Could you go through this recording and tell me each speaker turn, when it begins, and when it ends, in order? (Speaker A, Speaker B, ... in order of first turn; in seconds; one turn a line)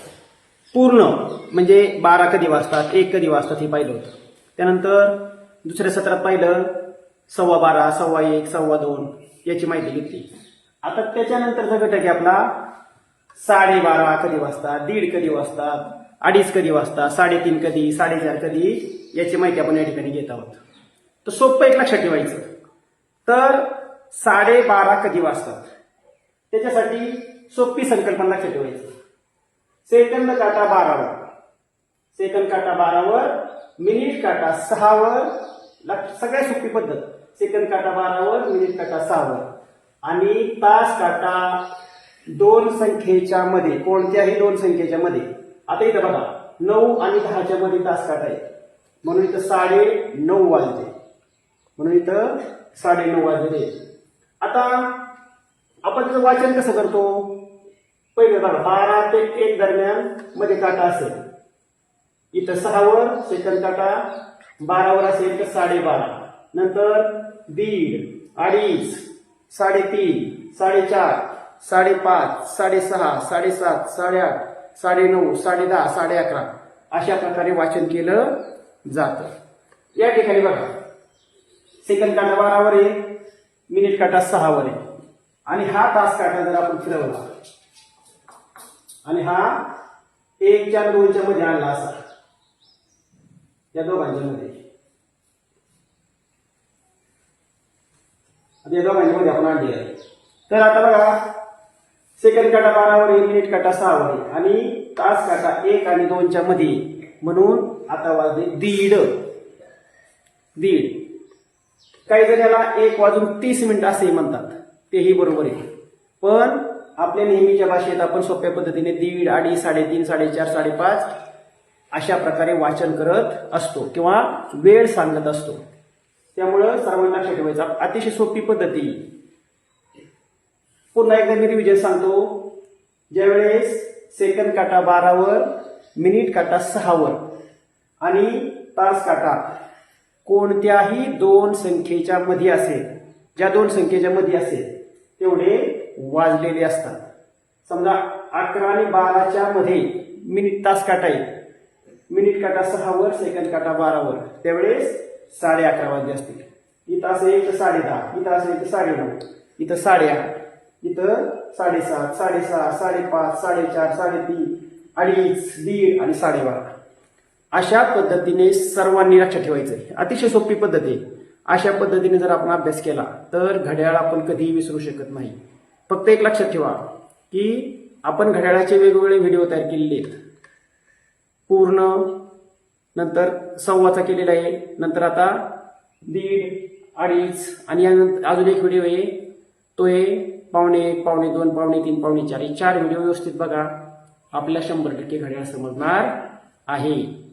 Speaker A: 0.7-6.7
Speaker A: 7.3-10.3
Speaker A: 10.8-12.5
Speaker A: 13.4-20.6
Speaker A: 21.2-22.4
Speaker A: 23.3-25.7
Speaker A: 26.5-28.9
Speaker A: 29.9-31.2
Speaker A: 32.1-35.3
Speaker A: 35.8-39.5
Speaker A: 40.0-41.6
Speaker A: 42.3-48.4
Speaker A: 49.0-50.9
Speaker A: 51.8-53.7
Speaker A: 54.4-54.9
Speaker A: 55.8-57.4
Speaker A: 58.2-61.2
Speaker A: 62.3-64.1
Speaker A: 64.6-78.3
Speaker A: 78.9-79.3
Speaker A: 80.0-80.7
Speaker A: 81.8-83.0
Speaker A: 83.7-84.8
Speaker A: 85.5-87.3
Speaker A: 89.0-89.7
Speaker A: 90.4-91.9
Speaker A: 93.7-94.6
Speaker A: 98.6-99.9
Speaker A: 100.5-101.2
Speaker A: 102.2-109.2
Speaker A: 110.6-111.0
Speaker A: 112.1-115.6
Speaker A: 116.2-121.1
Speaker A: 121.9-125.6
Speaker A: 126.3-129.0
Speaker A: 130.9-132.4
Speaker A: 133.1-137.2
Speaker A: 138.0-139.4
Speaker A: 140.2-142.8
Speaker A: 143.4-147.0
Speaker A: 147.7-151.2
Speaker A: 152.1-160.3
Speaker A: 160.8-166.7
Speaker A: 167.5-175.4
Speaker A: 175.9-180.2
Speaker A: 181.5-182.1
Speaker A: 182.9-185.4
Speaker A: 186.1-189.2
Speaker A: 189.8-193.7
Speaker A: 194.3-196.1
Speaker A: 196.7-197.1